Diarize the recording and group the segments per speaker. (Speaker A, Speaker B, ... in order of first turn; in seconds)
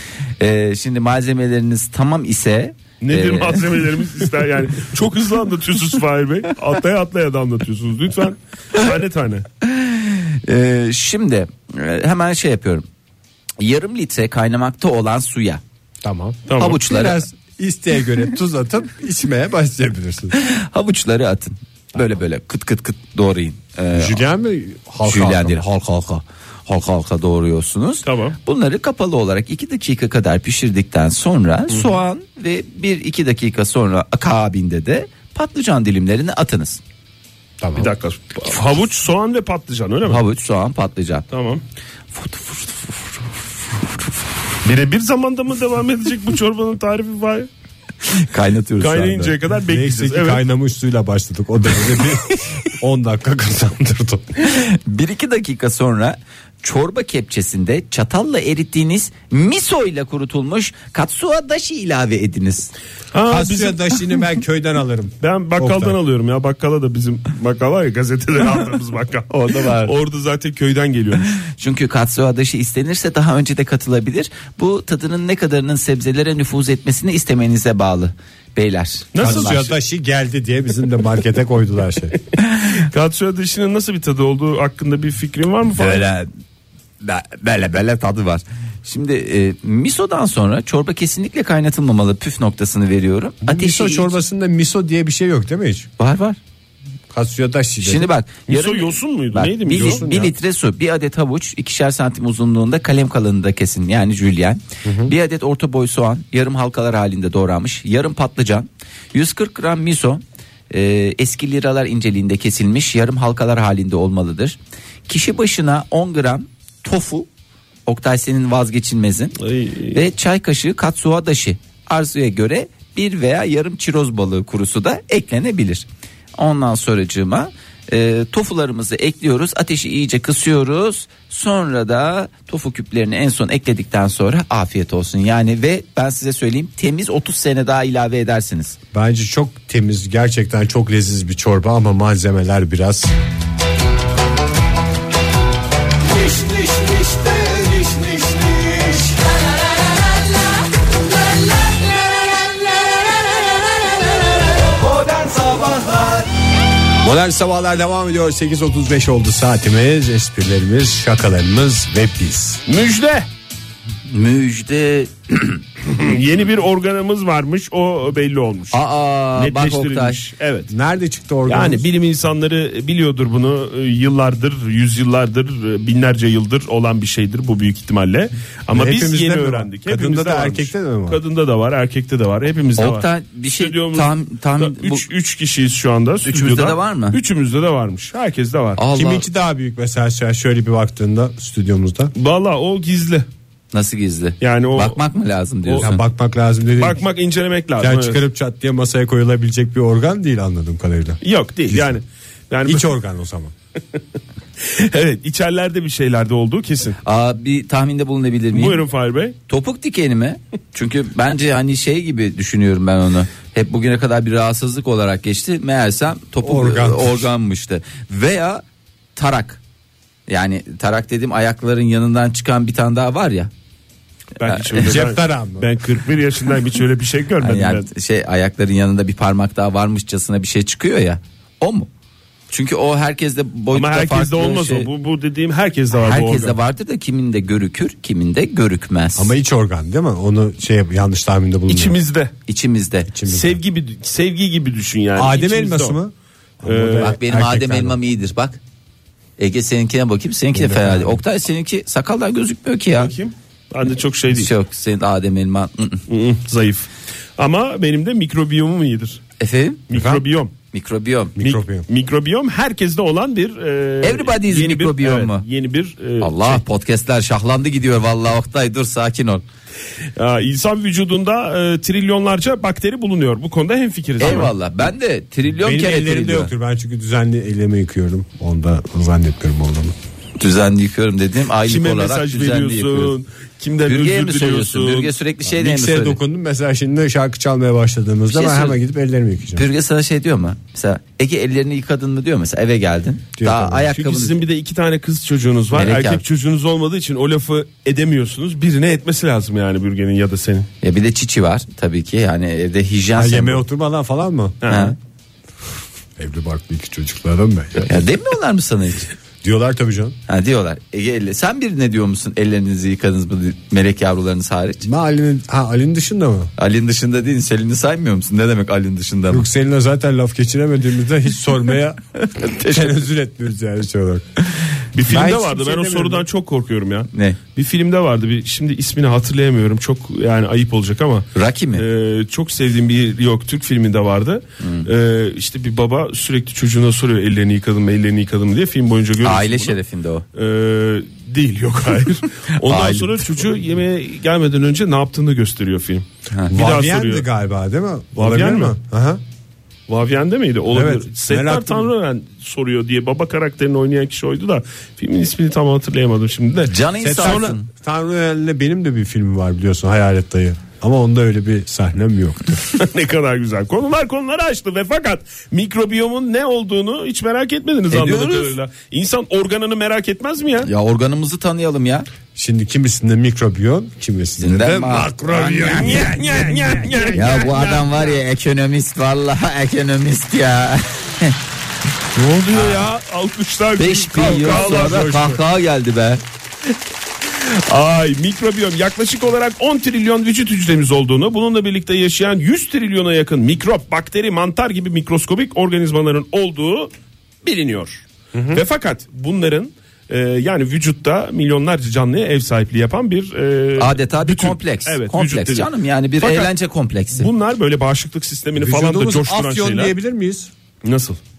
Speaker A: 0.4-3.8, 9.6-12.8, 13.6-15.6, 16.6-17.2, 20.3-24.2, 25.0-36.8, 40.0-41.3, 42.1-43.2, 43.8-44.1, 48.1-49.4, 54.4-62.7, 69.3-69.9, 71.5-79.7, 85.8-86.3, 87.0-94.2, 96.0-96.4, 97.8-114.6, 115.1-117.3, 117.9-119.4, 119.9-138.8, 164.1-165.6, 168.7-170.2, 182.8-185.1, 186.2-187.2, 188.8-189.3, 193.7-196.0, 207.0-208.8, 209.5-218.6, 219.2-219.6, 220.3-223.5, 224.4-225.0, 227.4-231.9, 232.5-234.9, 235.9-239.3, 242.5-243.1, 246.9-248.6, 249.4-253.1, 254.3-256.0, 259.4-259.8, 260.7-261.4, 264.0-265.4, 266.2-269.4, 274.2-276.5, 280.4-283.1, 283.9-286.2, 288.3-288.8, 289.5-294.4, 295.7-296.2, 300.8-303.6, 304.7-305.0, 307.9-309.1, 310.3-314.9, 316.6-319.5, 322.2-323.0, 327.1-327.4, 331.4-331.9, 334.6-334.9, 339.2-340.2, 342.6-343.4, 356.7-357.7, 367.9-368.6, 370.6-372.1, 374.4-376.0, 377.1-381.4, 382.5-382.9, 383.8-386.2, 403.8-407.3
Speaker B: 3.0-9.4, 16.5-16.8, 28.1-28.4, 37.8-40.2, 41.3-41.6, 44.6-47.5, 48.8-50.4, 63.1-64.0, 65.2-71.4, 79.1-79.7, 82.7-86.1, 98.5-100.2, 119.4-120.0, 162.7-163.3, 165.9-168.8, 169.3-170.7, 171.5-183.1, 183.6-188.8, 192.2-193.3, 194.4-195.0, 195.7-195.9, 196.8-198.2, 201.2-202.9, 204.6-207.0, 208.5-209.4, 224.4-227.9, 233.7-236.6, 241.7-242.3, 243.3-246.0, 246.6-247.2, 253.0-254.5, 256.1-259.2, 259.9-260.5, 261.4-266.6, 270.2-274.5, 281.6-285.1, 293.9-300.7, 304.6-304.9, 324.9-339.8, 340.3-347.2, 348.2-348.8, 349.9-357.6, 362.7-370.7, 375.5-378.2, 382.2-385.4, 387.3-396.9, 397.4-406.5, 407.2-409.9, 410.8-411.2
Speaker C: 16.0-20.4, 23.9-25.6, 37.6-37.9, 49.7-54.3, 63.3-66.0, 79.2-82.2, 93.4-95.9, 97.1-98.1, 99.7-100.3, 104.8-105.1, 138.9-143.1, 157.0-162.6, 170.7-171.9, 178.7-181.2, 188.9-192.1, 195.8-197.0, 197.8-202.0, 202.7-203.5, 216.4-217.3, 224.8-225.7, 239.2-242.0, 243.1-243.6, 245.2-248.0, 250.5-251.2, 259.9-260.2, 261.4-261.9, 275.5-279.9, 285.5-289.6, 293.4-293.9, 303.2-304.6, 306.2-308.0, 309.4-310.2, 314.8-316.5, 319.3-322.0, 322.6-324.2, 325.1-326.3, 346.5-349.2, 350.7-351.9, 357.0-362.7, 372.4-377.2, 408.6-410.5